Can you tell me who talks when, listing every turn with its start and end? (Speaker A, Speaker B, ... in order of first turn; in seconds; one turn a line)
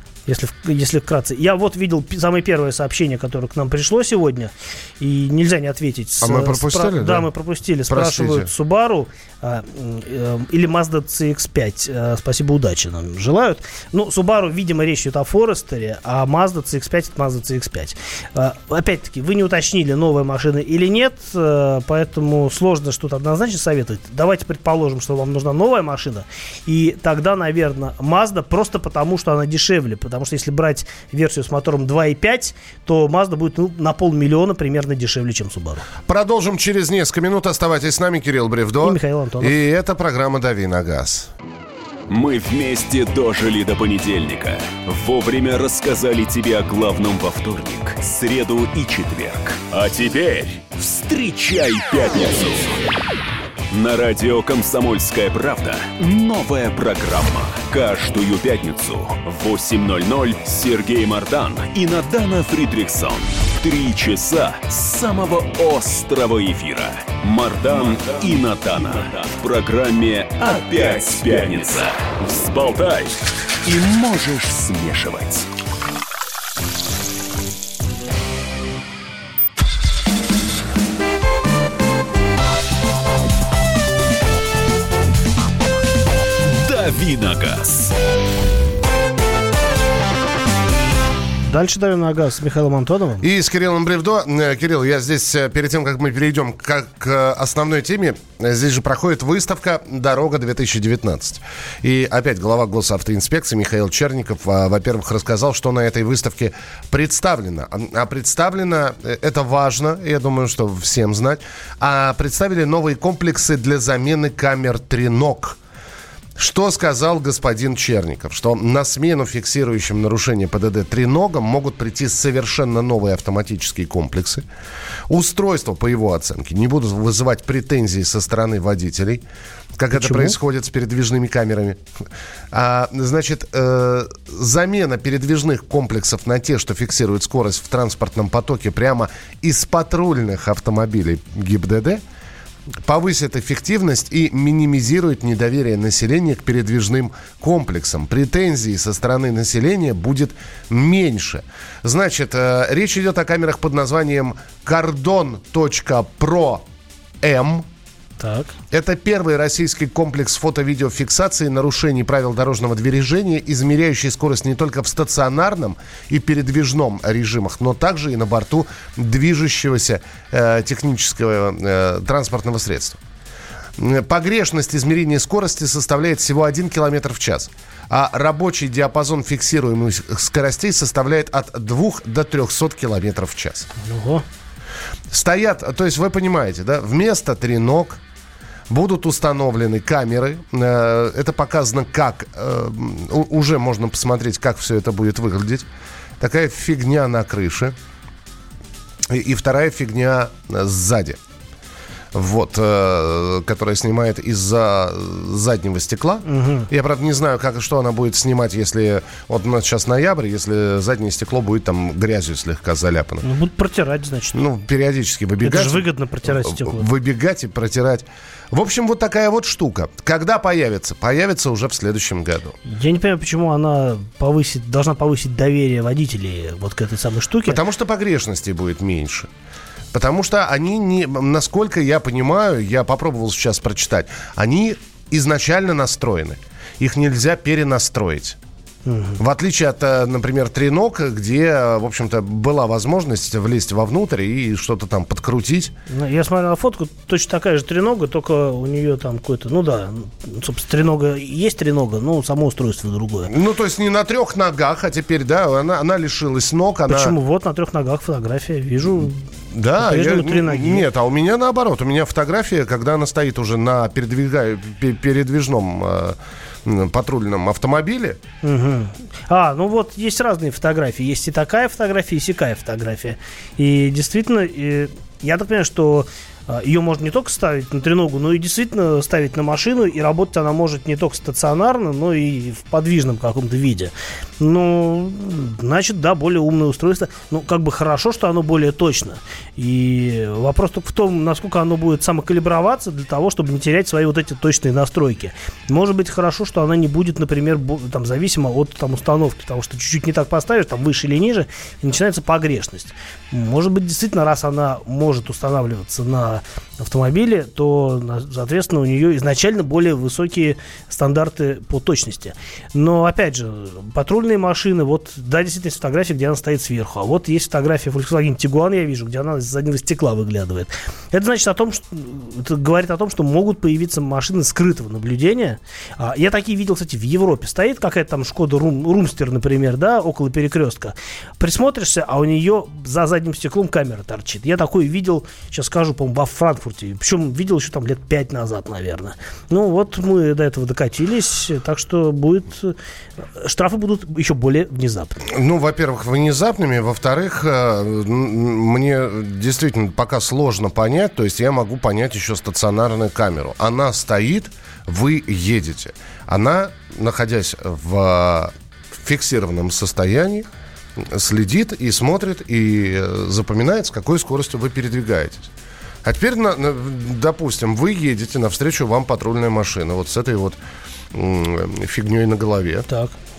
Speaker A: 0.3-35.9
Speaker B: 6.2-7.3
Speaker B: 7.9-8.5
Speaker B: 36.1-41.3
Speaker A: 38.8-39.6
Speaker C: 42.1-52.8
Speaker C: 53.7-75.5
Speaker C: 86.5-88.0
Speaker A: 91.5-93.3
Speaker B: 93.2-115.6
Speaker B: 116.4-124.5
Speaker B: 125.1-129.2
Speaker B: 129.8-131.8
Speaker A: 129.9-130.4
Speaker B: 132.5-142.0
Speaker B: 142.8-156.7
Speaker B: 157.2-157.7
Speaker A: 158.2-158.5
Speaker B: 158.7-173.0
Speaker B: 173.8-183.7
Speaker A: 183.8-184.2
Speaker B: 185.1-188.0
Speaker B: 188.7-195.7
Speaker B: 196.2-197.8
Speaker B: 199.1-201.2
Speaker B: 202.1-213.3
Speaker A: 206.3-206.7
Speaker A: 213.2-214.4
Speaker B: 214.3-222.6
Speaker A: 215.4-216.9
Speaker A: 222.7-227.6
Speaker B: 227.4-229.3
Speaker B: 229.9-238.4
Speaker A: 238.9-239.2
Speaker B: 239.2-245.7
Speaker A: 245.9-253.3
Speaker B: 253.2-257.1
Speaker A: 256.9-259.2
Speaker B: 259.5-268.2
Speaker A: 259.8-260.9
Speaker A: 268.4-342.8
Speaker A: 343.4-345.2
Speaker B: 345.2-365.5
Speaker B: 366.0-370.6
Speaker B: 371.1-372.9
Speaker A: 372.9-373.1